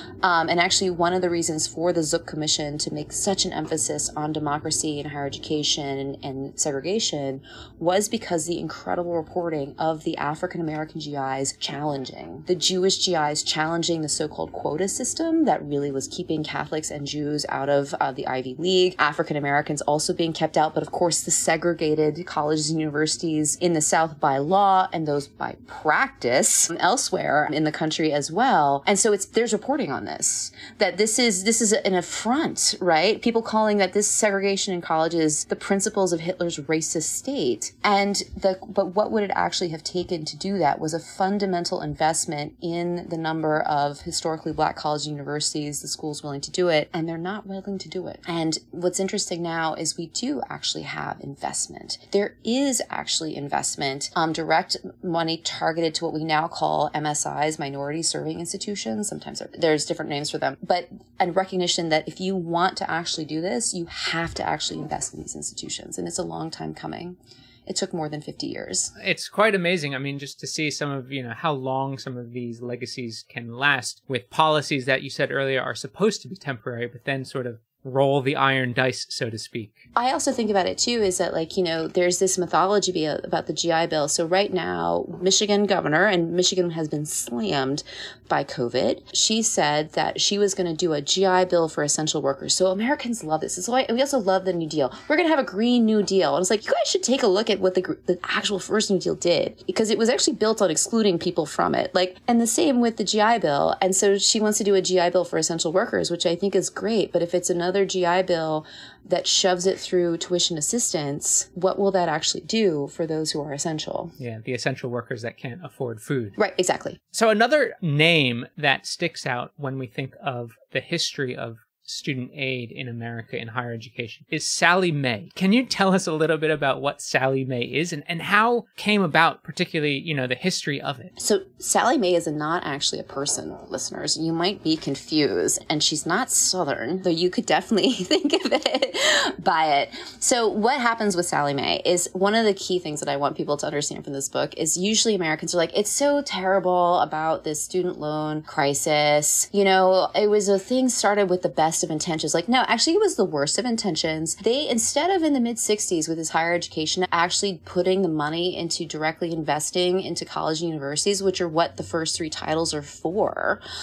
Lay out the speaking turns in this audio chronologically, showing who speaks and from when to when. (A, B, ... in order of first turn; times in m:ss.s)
0:00.2-1:08.9 A
1:09.0-1:19.8 B
1:20.0-1:54.1 A
1:54.2-1:56.4 B
1:56.4-1:57.0 A
1:57.1-2:11.1 B
2:11.2-2:43.6 A